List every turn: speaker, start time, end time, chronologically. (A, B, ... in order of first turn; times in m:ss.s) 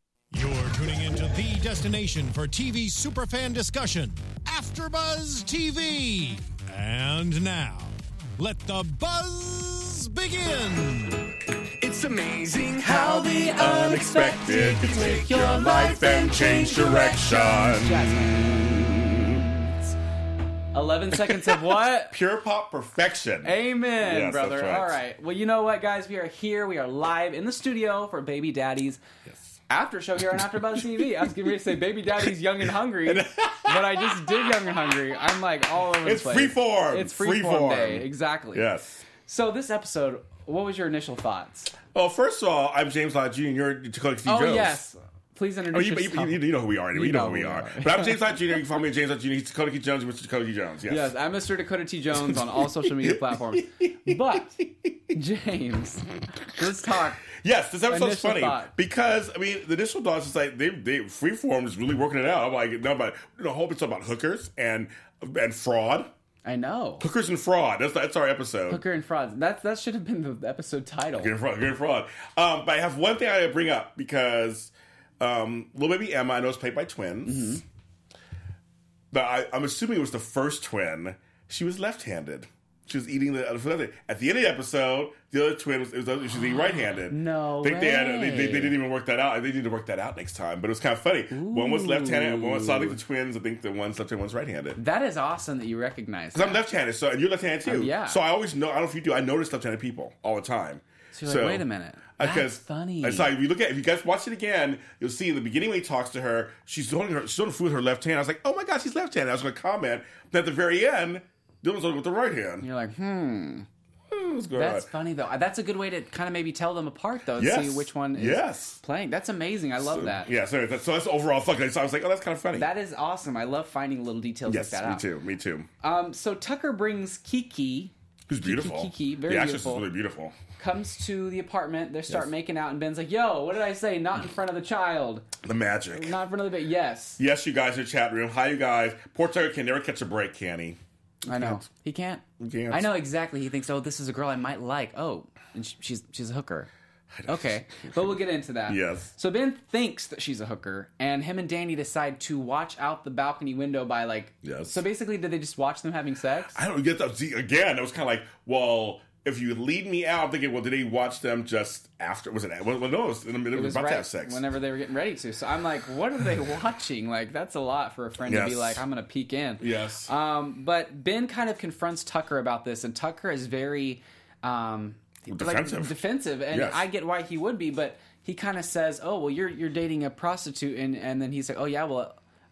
0:00.3-0:13.3 A
0:12.6-0:19.9 B
0:13.4-0:19.4 C
0:20.7-0:22.2 B
0:22.1-0:25.0 C
0:23.4-0:29.0 B
0:29.7-0:38.7 B
0:30.8-0:31.3 C
0:33.0-0:35.0 C
0:35.8-0:39.0 C
0:39.2-0:41.7 B
0:41.9-0:44.8 C
0:44.2-0:48.4 B
0:45.7-0:51.1 C
0:50.9-0:54.6 B
0:52.2-0:54.9 C
0:55.1-0:57.3 B
0:57.3-1:06.1 C
0:57.9-0:58.7 B
1:06.4-1:07.1 B
1:07.0-1:08.8 C
1:08.7-1:11.3 B
1:11.2-1:17.6 C
1:17.3-1:17.6 B
1:19.1-1:34.8 C
1:27.1-1:28.8 B
1:31.3-1:33.0 B
1:34.8-1:36.6 B
1:36.4-1:41.7 C
1:37.6-1:38.2 B
1:41.1-1:43.3 B
1:42.2-1:52.7 C
1:52.6-1:53.7 B
1:54.1-1:54.9 C
1:54.5-2:00.3 B
1:57.4-1:58.8 C
1:59.8-2:02.7 C
2:02.6-2:05.0 B
2:04.5-2:05.7 C
2:05.8-2:09.9 B
2:08.3-2:10.4 C
2:10.6-2:15.3 B
2:15.4-2:16.1 C
2:15.9-2:17.2 B
2:17.2-2:20.8 C
2:21.2-2:26.7 B
2:21.3-2:21.6 C
2:22.4-2:22.9 C
2:27.2-2:28.1 C
2:27.3-2:36.6 B
2:28.7-2:29.1 C
2:34.4-2:34.8 C
2:36.5-2:44.4 C
2:43.5-3:02.2 B
2:48.2-2:48.8 C
2:49.6-2:50.1 C
2:55.3-2:56.0 C
2:56.5-2:56.8 C